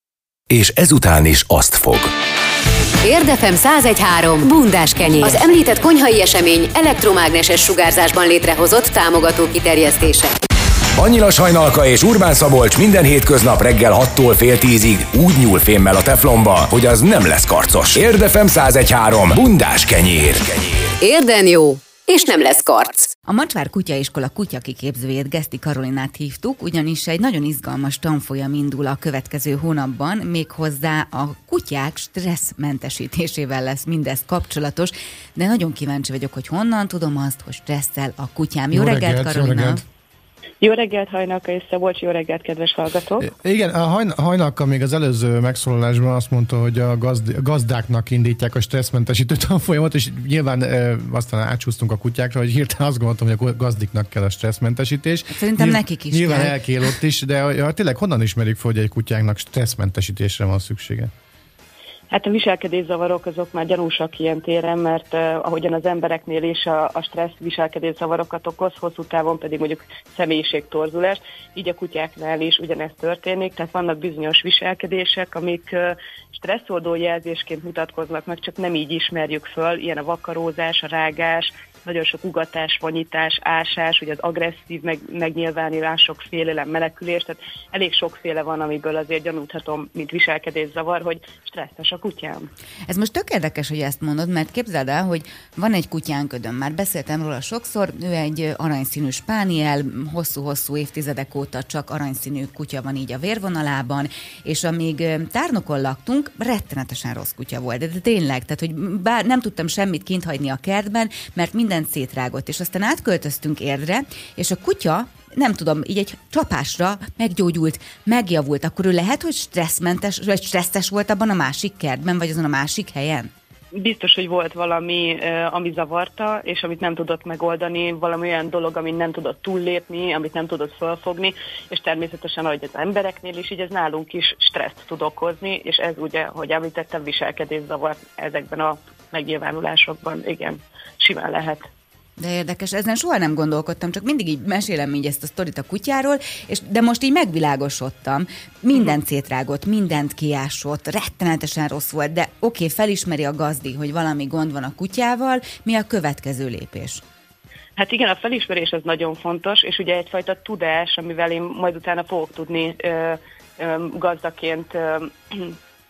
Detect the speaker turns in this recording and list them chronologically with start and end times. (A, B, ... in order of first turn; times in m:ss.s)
0:00.5-0:02.1 A
0:03.0-0:10.3 B
0:10.9-0:20.9 A
0:21.0-0:23.1 B
0:23.2-0:39.8 C
0:38.7-0:39.8 D
0:40.6-0:43.3 E
0:43.2-1:01.1 D
0:55.3-0:56.6 C
1:02.1-1:32.5 E
1:32.9-2:03.3 C
2:03.7-2:21.7 E
2:22.2-2:37.0 C
2:37.8-2:45.5 E